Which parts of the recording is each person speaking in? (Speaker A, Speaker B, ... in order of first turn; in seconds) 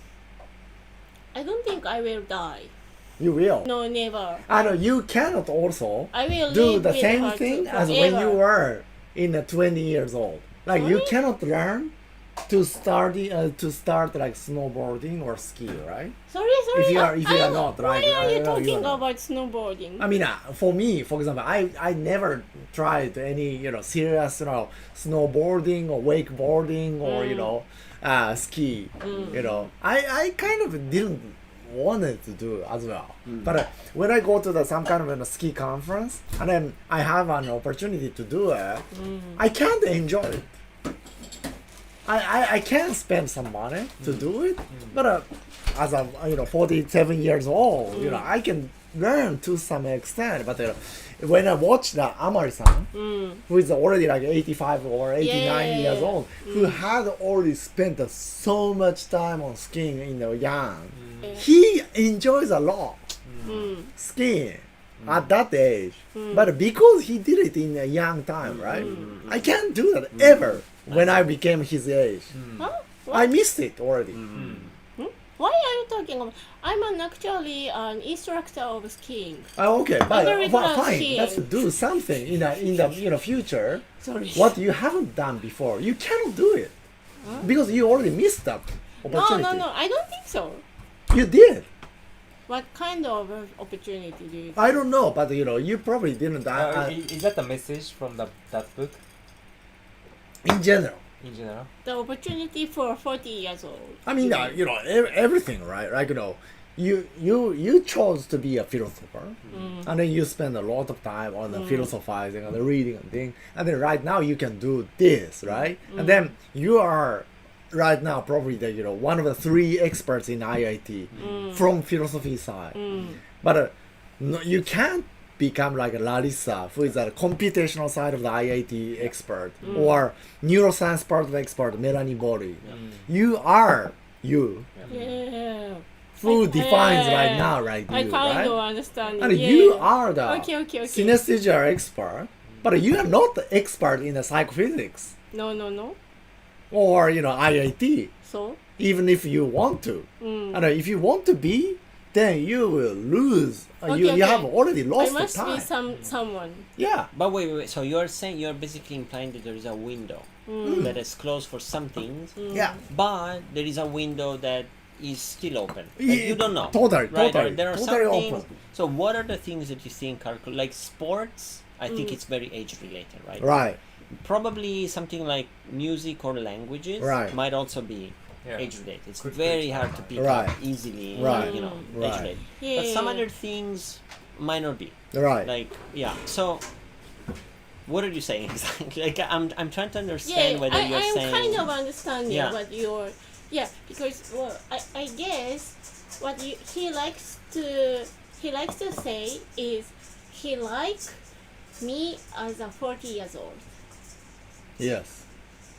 Speaker A: 1.3-2.7, 3.6-4.5, 6.1-8.4, 10.7-11.1, 16.3-20.1, 27.0-27.6, 29.0-29.5, 38.9-39.4, 47.9-48.2, 52.9-53.4, 55.2-56.8, 63.5-63.9, 66.2-66.6, 68.8-69.0, 72.6-73.3, 75.0-79.5, 80.1-81.5, 84.0-84.6, 87.2-87.5, 89.1-90.6, 92.5-94.8, 101.8-104.6, 109.5-109.9, 111.5-111.9, 115.9-116.3, 121.2-121.6, 122.8-123.2, 129.7-129.9, 134.9-141.2, 145.3-146.0, 148.2-148.6, 150.2-150.7, 153.9-156.7, 160.5-160.9, 162.4-162.8, 171.9-172.2, 181.2-182.0, 182.6-183.2, 190.2-201.2, 201.8-203.7
Speaker B: 3.2-3.7, 4.5-11.9, 12.5-16.1, 16.7-19.0, 20.0-38.9, 39.4-40.5, 42.1-52.9, 53.5-63.1, 64.0-72.3, 73.1-74.2, 79.6-86.8, 87.4-89.7, 91.1-91.7, 94.6-97.0, 100.4-101.0, 104.1-122.8, 123.4-134.7, 136.2-138.6, 139.2-145.1, 146.7-148.1, 148.8-155.7, 156.8-157.1, 166.0-168.5, 173.4-173.8, 177.0-177.3, 180.2-180.6, 181.1-182.3, 185.1-185.5, 204.8-205.2
Speaker C: 33.3-33.6, 68.4-69.5, 70.1-71.3, 74.1-74.7, 129.6-129.9, 134.8-135.1, 157.1-173.6, 174.2-186.7, 187.9-191.7, 192.3-192.6
Speaker D: 44.0-44.9, 60.9-61.4, 63.3-63.7, 65.0-65.3, 72.3-72.7, 74.3-74.7, 96.5-99.0, 101.2-101.7, 132.7-133.1, 178.4-180.3